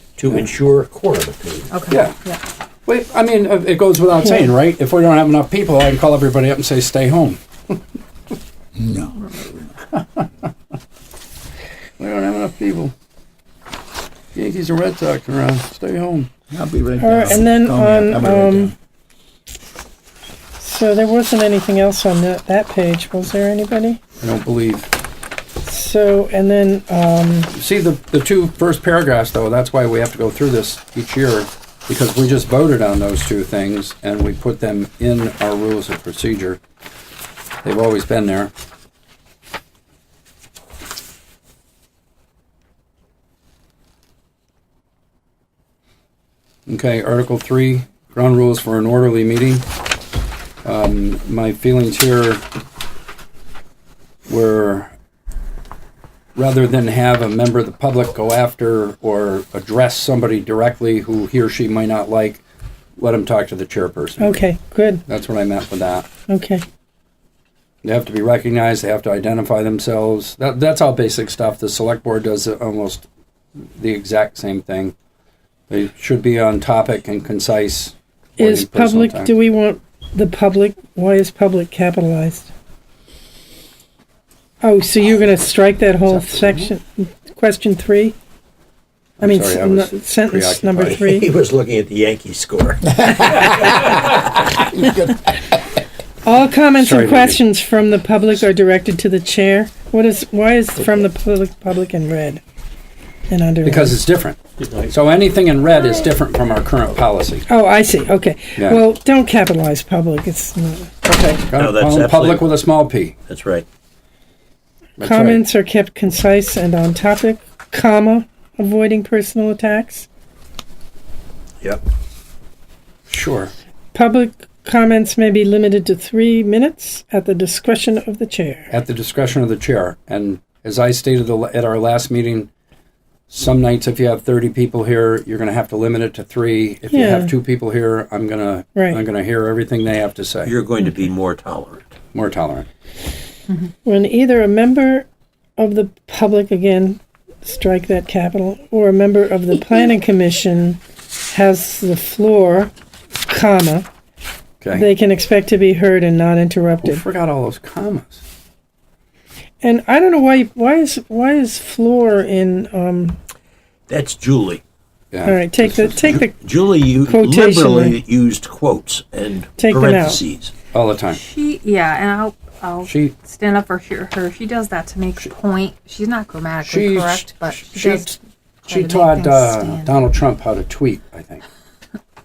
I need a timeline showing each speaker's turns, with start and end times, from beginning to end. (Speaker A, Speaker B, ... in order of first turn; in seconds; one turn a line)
Speaker A: 0.2-1.7
Speaker B: 1.7-2.4
Speaker C: 1.9-2.2
Speaker C: 2.9-7.8
Speaker D: 4.2-4.5
Speaker E: 8.8-9.1
Speaker C: 9.9-10.2
Speaker C: 12.0-12.9
Speaker C: 14.3-16.3
Speaker E: 16.5-18.7
Speaker D: 17.0-18.7
Speaker D: 20.6-24.0
Speaker C: 24.2-24.9
Speaker D: 25.6-27.5
Speaker C: 27.5-36.6
Speaker C: 37.6-38.5
Speaker C: 46.7-49.6
Speaker C: 50.6-52.5
Speaker C: 54.3-54.9
Speaker C: 56.4-62.4
Speaker C: 63.0-64.4
Speaker D: 64.2-65.0
Speaker C: 65.1-66.1
Speaker D: 66.3-66.7
Speaker C: 67.8-73.1
Speaker C: 73.8-74.9
Speaker C: 75.7-79.3
Speaker D: 78.4-82.5
Speaker D: 84.6-88.2
Speaker C: 86.1-86.7
Speaker C: 89.2-91.0
Speaker D: 89.2-91.3
Speaker A: 90.9-94.2
Speaker D: 96.2-102.4
Speaker C: 96.8-97.4
Speaker D: 103.3-104.0
Speaker C: 103.6-107.5
Speaker A: 104.6-104.9
Speaker D: 107.5-111.4
Speaker C: 108.6-108.8
Speaker C: 111.5-113.2
Speaker A: 111.5-112.5
Speaker A: 113.3-113.7
Speaker C: 115.0-115.4
Speaker D: 115.0-120.1
Speaker C: 123.1-123.5
Speaker D: 123.9-128.7
Speaker C: 128.7-132.5
Speaker C: 133.3-140.6
Speaker D: 136.9-137.3
Speaker D: 138.8-139.0
Speaker A: 140.4-141.9
Speaker C: 142.1-142.7
Speaker D: 143.8-152.7
Speaker D: 153.3-153.9
Speaker C: 154.6-154.9
Speaker D: 154.7-157.0
Speaker C: 156.8-158.2
Speaker D: 159.6-163.2
Speaker A: 163.9-164.6
Speaker C: 165.1-165.5
Speaker D: 165.2-166.4
Speaker A: 165.6-170.5
Speaker D: 167.0-168.0
Speaker D: 169.6-170.2
Speaker C: 170.7-171.2
Speaker B: 171.1-180.0
Speaker C: 172.8-173.1
Speaker C: 176.6-178.2
Speaker C: 178.7-181.4